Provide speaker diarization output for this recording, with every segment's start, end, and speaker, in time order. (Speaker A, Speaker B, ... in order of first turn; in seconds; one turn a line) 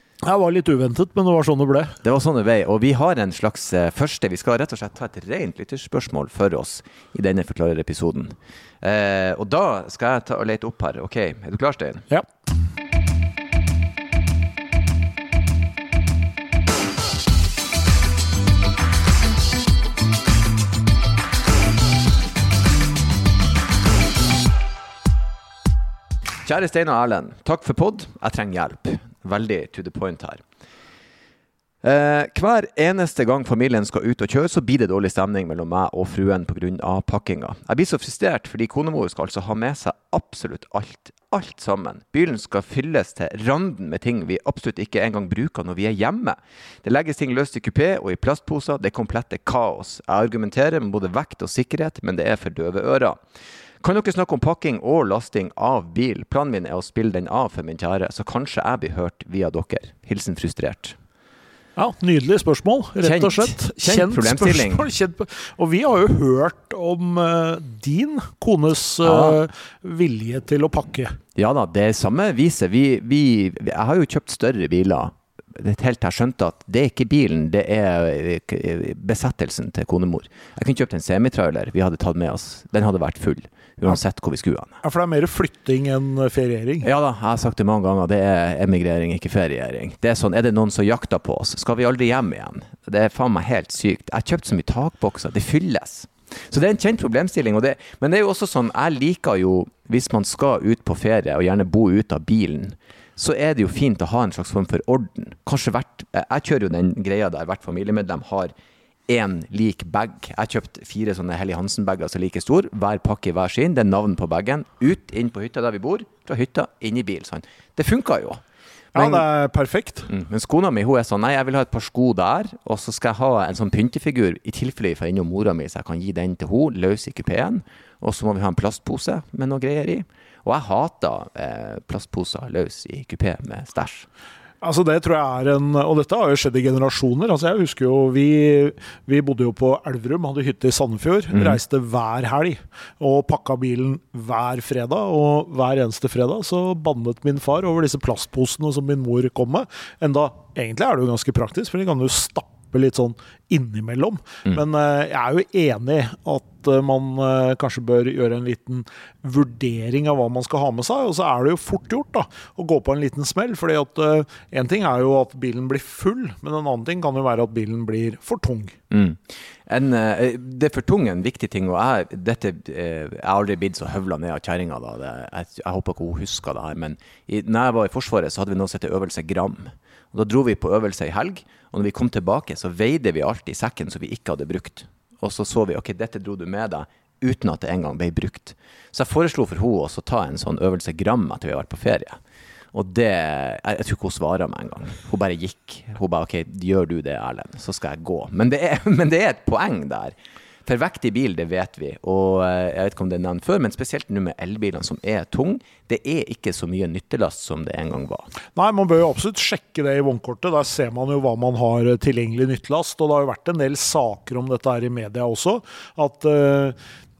Speaker A: 0.2-2.0
Speaker B: 2.0-12.1
Speaker B: 26.4-30.4
Speaker B: 31.8-53.2
Speaker B: 53.8-61.0
Speaker A: 61.8-71.2
Speaker B: 63.0-64.8
Speaker B: 69.0-69.4
Speaker B: 71.3-84.8
Speaker A: 84.8-86.9
Speaker B: 86.8-108.5
Speaker B: 109.1-118.4
Speaker B: 118.9-119.2
Speaker A: 118.9-120.1
Speaker B: 120.1-134.1
Speaker A: 134.6-168.7
Speaker B: 168.9-192.2
Speaker B: 192.7-208.3
Speaker A: 208.6-216.8